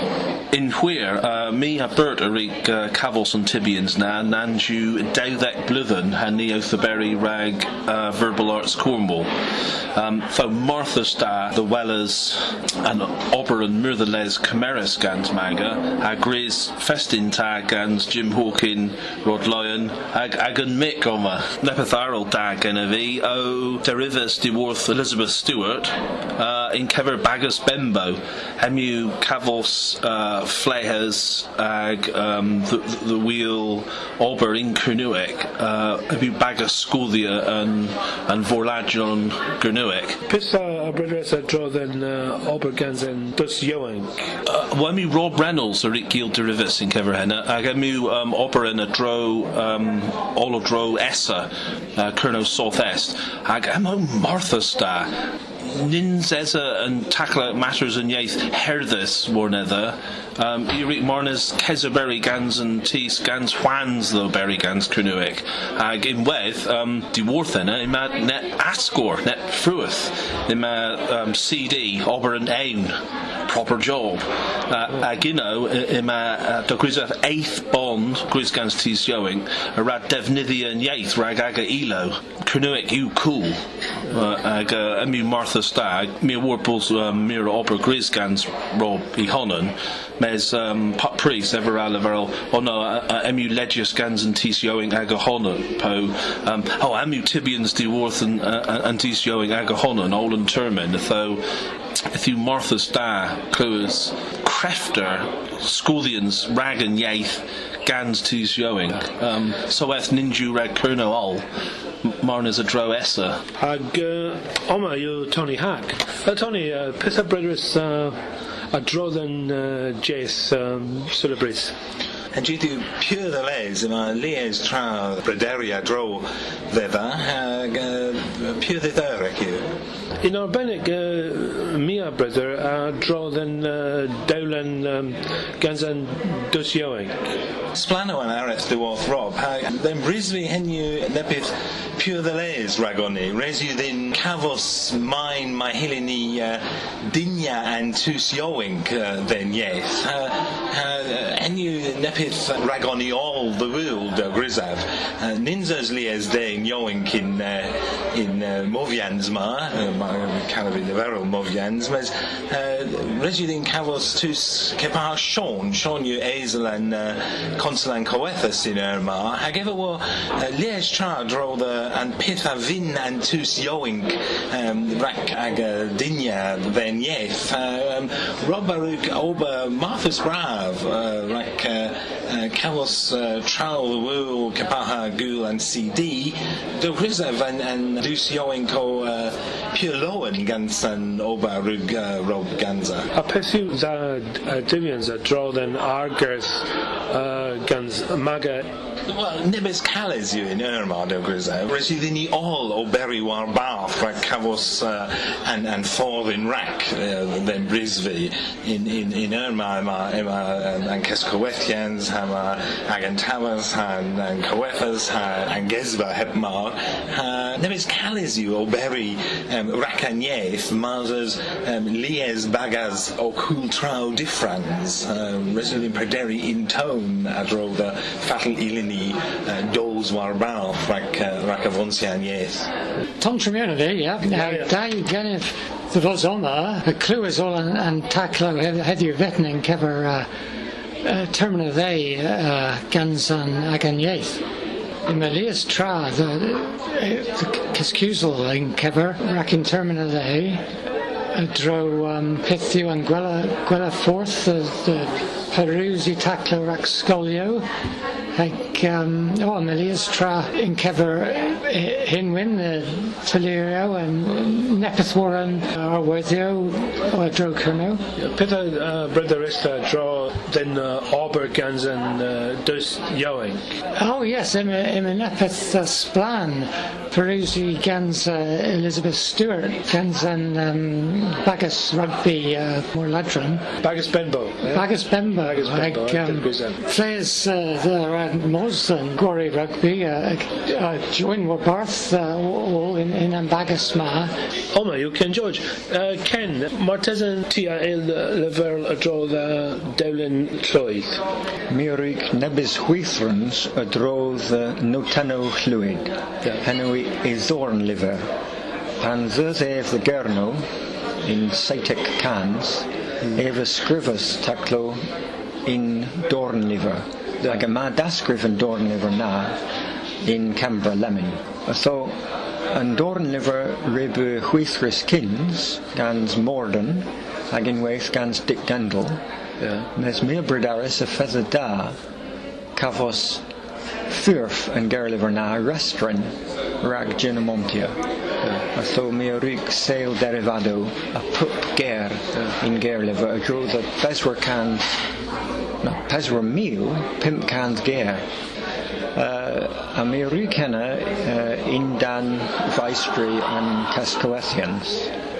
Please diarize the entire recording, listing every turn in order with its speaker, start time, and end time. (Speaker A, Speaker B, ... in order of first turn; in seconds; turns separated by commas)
Speaker A: 0.5-9.3, Speaker A: 9.9-40.2, Speaker B: 40.3-44.3, Speaker A: 44.5-55.1, Speaker A: 55.6-72.9, Speaker A: 73.5-101.4, Speaker A: 102.1-111.4, Speaker A: 112.0-113.4, Speaker B: 113.6-118.2, Speaker B: 118.7-121.7, Speaker C: 122.3-129.6, Speaker B: 130.2-137.2, Speaker C: 137.7-193.1, Speaker B: 193.1-198.7, Speaker C: 199.1-232.7, Speaker D: 233.2-240.3, Speaker B: 234.4-234.7, Speaker D: 241.0-244.4, Speaker D: 245.1-250.6, Speaker D: 251.3-257.6, Speaker D: 258.3-268.0, Speaker B: 268.2-273.6, Speaker D: 273.9-283.7, Speaker B: 283.8-286.8, Speaker D: 284.7-294.3, Speaker B: 294.7-301.2, Speaker E: 301.7-306.1, Speaker E: 306.6-308.3, Speaker E: 309.0-310.6, Speaker E: 311.2-315.0, Speaker E: 315.6-319.6, Speaker E: 320.2-322.1, Speaker E: 322.7-329.2, Speaker E: 329.9-332.0, Speaker E: 332.8-333.4, Speaker E: 334.1-338.0, Speaker E: 338.7-345.0, Speaker E: 345.8-348.2, Speaker E: 349.1-355.1